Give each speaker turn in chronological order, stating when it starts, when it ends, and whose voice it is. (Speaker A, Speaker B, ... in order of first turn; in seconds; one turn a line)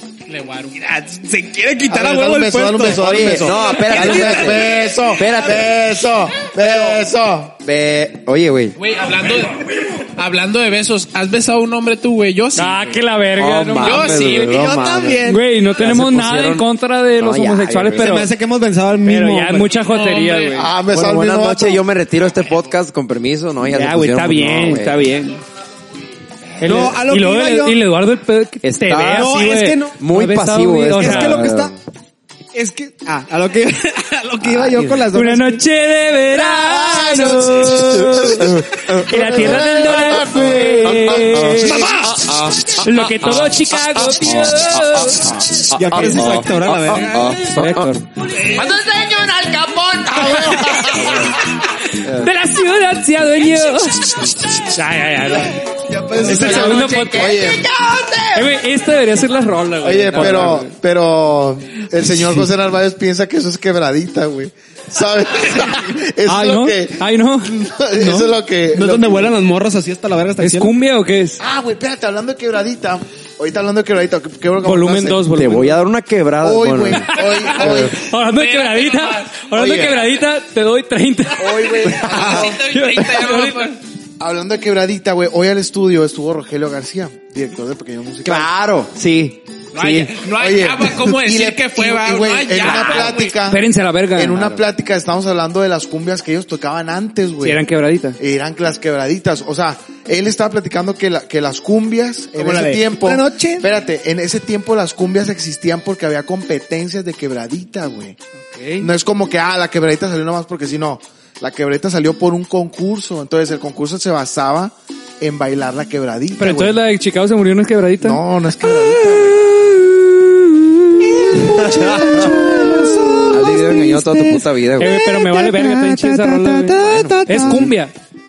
Speaker A: 0.3-0.8
Speaker B: 0.8-4.7
Speaker C: 1.9-7.6
Speaker D: 3.0-5.7
Speaker D: 7.6-8.8
Speaker A: 8.8-12.9
Speaker E: 12.6-14.2
Speaker D: 13.4-16.7
Speaker A: 13.8-14.7
Speaker B: 14.3-15.4
Speaker E: 15.3-18.3
Speaker D: 17.2-18.1
Speaker B: 17.9-19.7
Speaker E: 19.1-20.7
Speaker A: 19.7-20.7
Speaker C: 20.6-21.8
Speaker D: 20.9-25.1
Speaker E: 23.6-25.4
Speaker E: 26.6-31.5
Speaker B: 26.6-27.8
Speaker D: 28.6-29.4
Speaker B: 29.1-30.0
Speaker D: 30.0-31.8
Speaker B: 31.0-31.7
Speaker B: 32.5-35.6
Speaker D: 34.6-35.0
Speaker E: 35.1-42.0
Speaker C: 36.6-41.6
Speaker B: 36.8-38.2
Speaker D: 38.4-51.4
Speaker B: 41.6-42.4
Speaker E: 42.7-46.3
Speaker B: 45.7-47.5
Speaker E: 47.5-48.0
Speaker C: 50.2-50.7
Speaker E: 50.6-51.3
Speaker E: 51.9-55.6
Speaker D: 52.0-52.3
Speaker B: 55.9-57.0
Speaker C: 55.9-57.7
Speaker E: 56.2-57.5
Speaker D: 56.9-58.5
Speaker E: 58.3-60.7
Speaker C: 59.8-69.3
Speaker E: 66.2-67.6
Speaker B: 68.0-70.7
Speaker E: 70.4-71.4
Speaker C: 71.4-75.3
Speaker E: 74.6-75.8
Speaker D: 75.3-77.9
Speaker C: 76.4-78.0
Speaker E: 77.1-83.8
Speaker A: 77.1-79.9
Speaker C: 79.5-80.0
Speaker C: 81.4-82.7
Speaker A: 81.9-83.8
Speaker C: 84.2-88.5
Speaker D: 88.2-90.2
Speaker A: 89.8-93.4
Speaker C: 90.3-93.6
Speaker D: 92.7-93.1
Speaker E: 93.5-94.5
Speaker C: 94.2-97.6
Speaker D: 94.3-94.6
Speaker E: 97.4-98.2
Speaker C: 98.2-108.2
Speaker B: 102.3-103.7
Speaker E: 108.5-108.9
Speaker C: 108.8-116.8
Speaker E: 116.4-123.0
Speaker C: 118.0-119.6
Speaker B: 121.0-127.7
Speaker D: 121.4-122.4
Speaker D: 123.3-125.0
Speaker E: 124.8-127.9